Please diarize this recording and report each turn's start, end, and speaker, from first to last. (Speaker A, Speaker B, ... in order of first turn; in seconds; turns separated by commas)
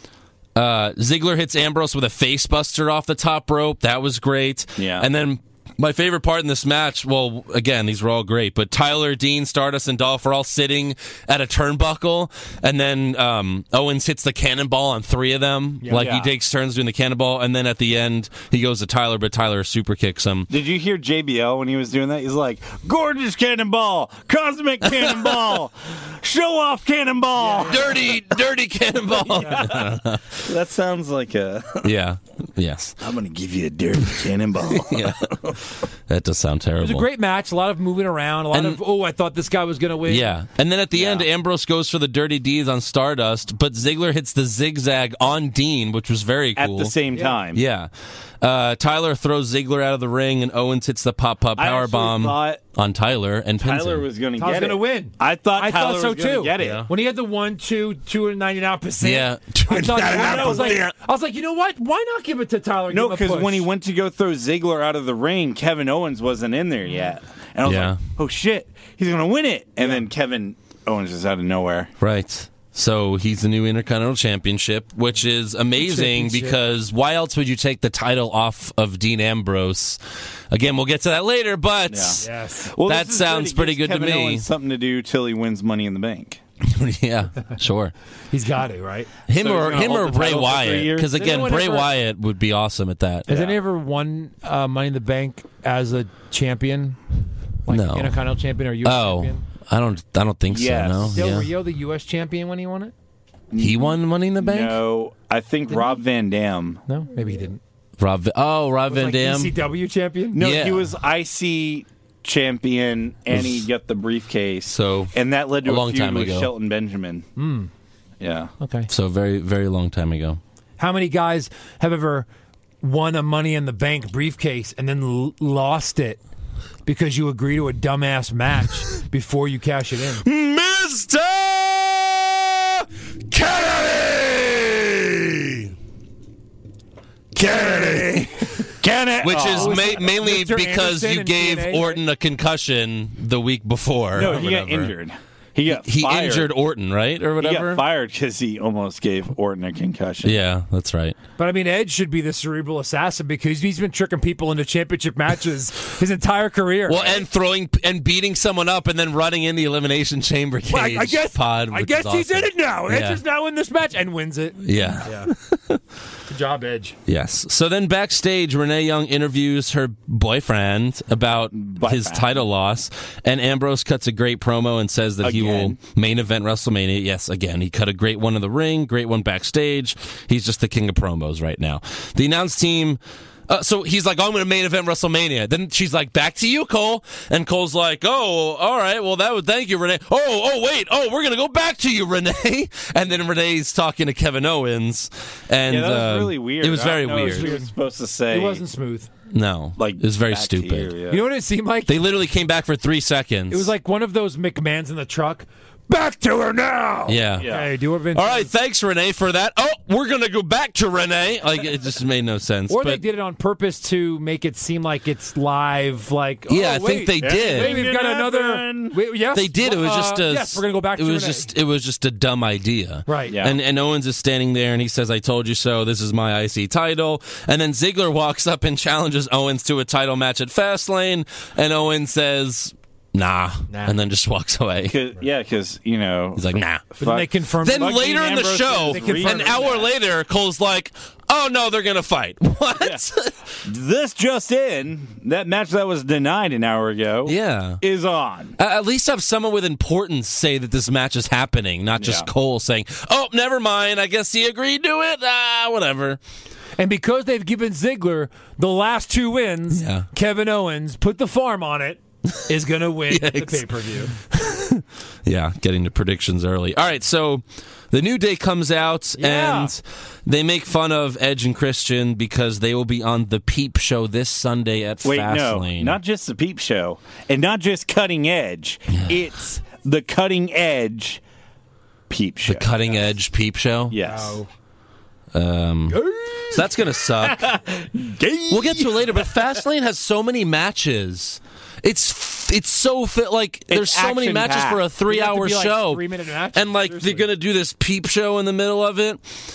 Speaker A: 0.5-20.5, Speaker B: 4.8-5.1, Speaker C: 15.8-16.1, Speaker B: 15.9-16.3, Speaker B: 20.5-28.2, Speaker C: 27.4-28.1, Speaker A: 27.6-30.4, Speaker C: 29.3-29.8, Speaker B: 29.3-31.9, Speaker A: 31.8-33.0, Speaker B: 33.0-35.6, Speaker A: 34.7-35.4, Speaker A: 36.1-37.0, Speaker C: 36.8-40.3, Speaker A: 38.5-38.8, Speaker A: 40.0-46.9, Speaker B: 40.9-41.3, Speaker B: 46.5-47.6, Speaker A: 47.5-47.9, Speaker A: 48.4-54.1, Speaker B: 51.5-52.6, Speaker B: 53.6-56.9, Speaker C: 54.4-63.7, Speaker A: 56.6-56.9, Speaker A: 59.0-60.9, Speaker B: 60.0-60.9, Speaker B: 62.9-71.9, Speaker A: 67.6-68.0, Speaker A: 72.0-80.0, Speaker C: 75.8-76.6, Speaker A: 80.5-82.2, Speaker B: 81.9-86.4, Speaker C: 82.2-82.7, Speaker A: 82.8-84.5, Speaker A: 86.6-87.9, Speaker C: 88.3-89.1, Speaker A: 89.3-93.3, Speaker B: 89.3-91.7, Speaker C: 91.2-91.9, Speaker C: 93.3-97.0, Speaker B: 93.3-93.6, Speaker C: 97.7-99.4, Speaker A: 97.7-98.2, Speaker A: 98.8-101.5, Speaker B: 100.5-101.3, Speaker C: 101.1-102.9, Speaker B: 103.5-106.8, Speaker A: 103.6-104.8, Speaker C: 106.9-107.6, Speaker A: 108.0-109.5, Speaker C: 108.9-110.5, Speaker B: 110.3-117.2, Speaker A: 110.4-110.9, Speaker A: 113.3-113.6, Speaker A: 114.7-116.5, Speaker C: 117.4-117.7, Speaker B: 118.2-118.5, Speaker C: 118.6-118.9, Speaker A: 118.9-120.4, Speaker C: 120.8-122.3, Speaker C: 122.8-126.2, Speaker C: 126.8-130.2, Speaker A: 130.2-135.7, Speaker A: 137.3-138.7, Speaker C: 137.4-138.2, Speaker B: 137.4-138.1, Speaker B: 138.8-140.0, Speaker A: 139.2-144.9, Speaker C: 139.5-142.0, Speaker B: 144.1-146.5, Speaker A: 145.7-147.8, Speaker B: 147.4-150.4, Speaker A: 150.2-151.2, Speaker C: 151.4-157.3, Speaker A: 156.9-163.2, Speaker C: 160.7-165.3, Speaker A: 164.6-165.8, Speaker C: 166.3-167.0, Speaker A: 167.1-197.5, Speaker B: 171.5-172.4, Speaker B: 175.2-175.8, Speaker B: 195.7-198.6, Speaker C: 197.1-197.7, Speaker C: 198.3-199.1, Speaker A: 199.3-200.9, Speaker B: 199.8-201.2, Speaker C: 201.1-202.0, Speaker A: 201.8-203.7, Speaker C: 203.5-208.5, Speaker A: 207.1-207.5, Speaker B: 207.4-207.7, Speaker A: 208.1-213.0, Speaker C: 212.7-221.5, Speaker A: 216.5-217.8, Speaker B: 217.2-219.0, Speaker A: 219.3-235.0, Speaker C: 223.1-223.4, Speaker B: 223.3-223.6, Speaker C: 233.7-234.0, Speaker B: 234.8-239.9, Speaker A: 236.3-236.9, Speaker C: 237.0-239.8, Speaker A: 237.6-243.3, Speaker B: 243.6-248.6, Speaker A: 247.2-247.8, Speaker A: 248.6-256.2, Speaker B: 251.9-252.3, Speaker C: 256.8-264.1, Speaker A: 259.7-260.1, Speaker A: 263.1-276.0, Speaker C: 269.2-269.7, Speaker B: 275.0-281.2, Speaker B: 282.1-283.0, Speaker A: 282.4-284.0, Speaker B: 283.9-284.4, Speaker C: 284.0-284.5, Speaker A: 285.3-287.5, Speaker C: 285.9-286.7, Speaker B: 287.2-289.3, Speaker A: 288.5-299.2, Speaker B: 293.7-294.8, Speaker C: 295.1-297.3